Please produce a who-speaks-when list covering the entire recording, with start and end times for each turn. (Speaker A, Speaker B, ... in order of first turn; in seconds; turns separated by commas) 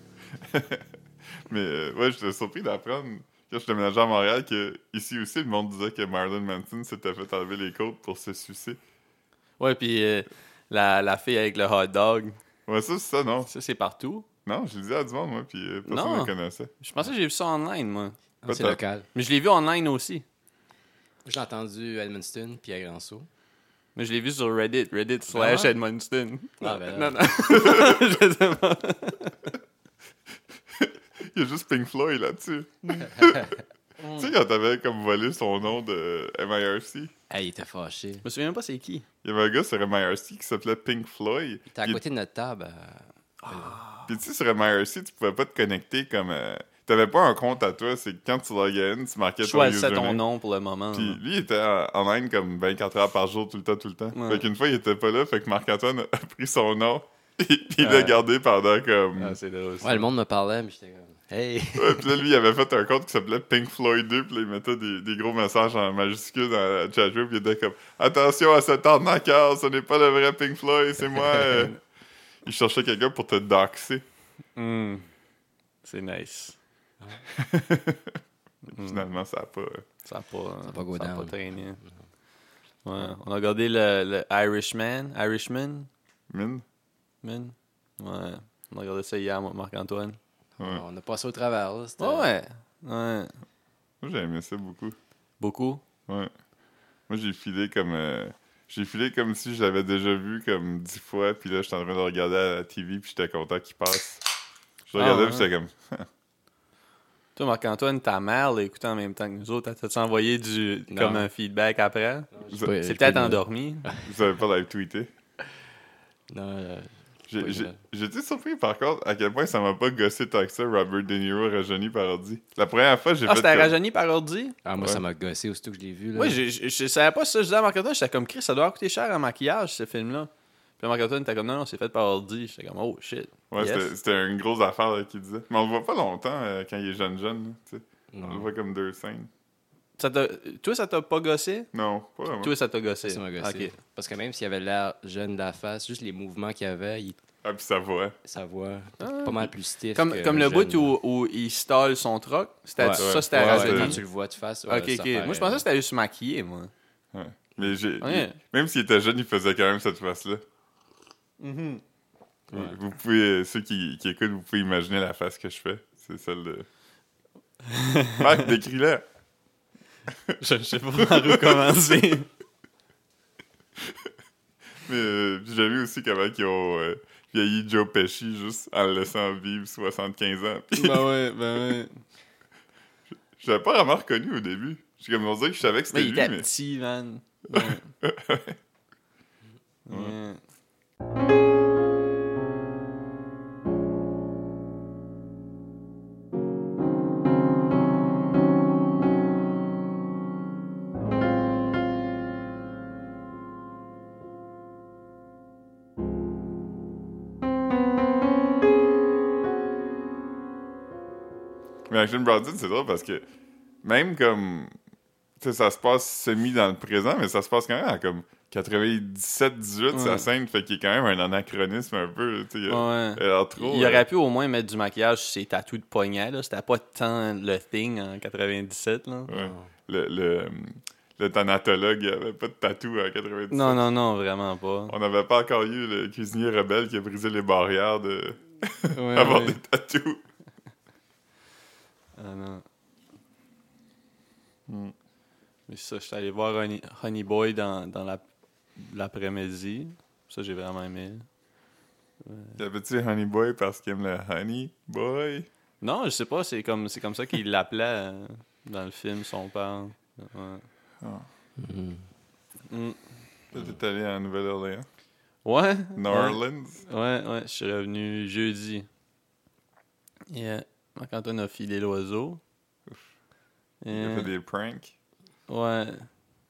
Speaker A: 0.3-8.8, Speaker B: 9.6-12.4, Speaker A: 12.7-13.5, Speaker B: 13.5-14.2, Speaker A: 14.4-16.7, Speaker B: 15.9-18.2, Speaker C: 18.4-19.1, Speaker A: 18.5-18.8, Speaker B: 19.1-20.2, Speaker C: 21.2-23.3, Speaker B: 23.9-29.4, Speaker C: 25.3-25.7, Speaker C: 26.6-27.6, Speaker A: 30.7-33.6, Speaker B: 34.0-34.3, Speaker A: 34.1-37.1, Speaker C: 37.3-38.2, Speaker B: 38.2-39.0, Speaker A: 39.2-42.0, Speaker C: 41.7-43.8, Speaker B: 43.4-44.1, Speaker A: 44.1-50.2, Speaker B: 49.4-51.2, Speaker A: 50.9-59.4, Speaker B: 54.1-54.5, Speaker B: 57.8-58.2, Speaker B: 59.1-60.1, Speaker C: 59.8-62.2, Speaker A: 61.8-71.8, Speaker A: 72.4-74.0, Speaker B: 74.5-75.0, Speaker B: 75.8-76.6, Speaker A: 77.3-78.2, Speaker B: 78.6-79.0, Speaker A: 78.7-79.8, Speaker B: 80.0-81.8, Speaker C: 80.7-81.8, Speaker B: 82.8-85.9, Speaker A: 86.3-86.6, Speaker B: 87.2-90.2, Speaker C: 90.6-92.3, Speaker B: 92.0-93.3, Speaker A: 94.0-95.0, Speaker B: 95.4-95.8, Speaker A: 96.1-96.3, Speaker A: 97.1-104.2, Speaker A: 104.9-106.1, Speaker B: 105.0-105.5, Speaker B: 107.3-113.9, Speaker C: 110.9-111.3, Speaker C: 112.3-114.1, Speaker A: 112.5-112.7, Speaker A: 114.0-115.1, Speaker C: 116.3-117.8, Speaker A: 117.3-123.7, Speaker B: 123.2-124.5, Speaker C: 124.6-126.4, Speaker B: 126.2-133.9, Speaker A: 133.5-139.3, Speaker C: 138.1-138.5, Speaker B: 140.0-141.7, Speaker A: 141.7-142.5, Speaker B: 142.4-143.7, Speaker C: 143.0-147.2, Speaker A: 147.4-148.2, Speaker C: 148.2-150.9, Speaker B: 149.0-154.0, Speaker C: 152.8-155.6, Speaker A: 153.0-154.0, Speaker B: 154.7-156.7, Speaker A: 157.1-160.4, Speaker B: 158.0-158.4, Speaker B: 161.4-161.8, Speaker C: 162.5-162.8, Speaker A: 162.5-166.7, Speaker B: 167.6-168.5, Speaker A: 168.2-169.0, Speaker A: 170.1-170.4, Speaker B: 170.4-172.3, Speaker A: 171.0-171.9, Speaker A: 173.8-174.1, Speaker A: 174.8-181.1, Speaker B: 180.7-182.0, Speaker A: 183.4-186.5, Speaker B: 185.9-187.9, Speaker A: 187.5-188.6, Speaker B: 189.8-190.4, Speaker A: 189.9-190.1, Speaker A: 211.9-213.3, Speaker A: 213.8-214.7, Speaker A: 215.4-224.1, Speaker B: 219.9-220.2, Speaker B: 222.7-229.3, Speaker A: 229.3-233.8, Speaker C: 229.3-229.7, Speaker B: 233.5-234.9, Speaker A: 234.9-240.2, Speaker B: 238.9-239.6, Speaker B: 242.2-242.6, Speaker A: 244.7-244.9, Speaker B: 245.7-248.2, Speaker B: 248.8-251.2, Speaker B: 252.2-252.6, Speaker A: 252.6-255.5, Speaker B: 255.8-260.6, Speaker A: 261.0-261.2, Speaker C: 261.6-262.0, Speaker B: 262.7-263.0, Speaker A: 263.5-264.9, Speaker B: 265.4-268.9, Speaker A: 265.9-266.8, Speaker B: 270.3-272.4, Speaker B: 273.8-274.3, Speaker A: 273.9-274.9, Speaker B: 275.5-276.1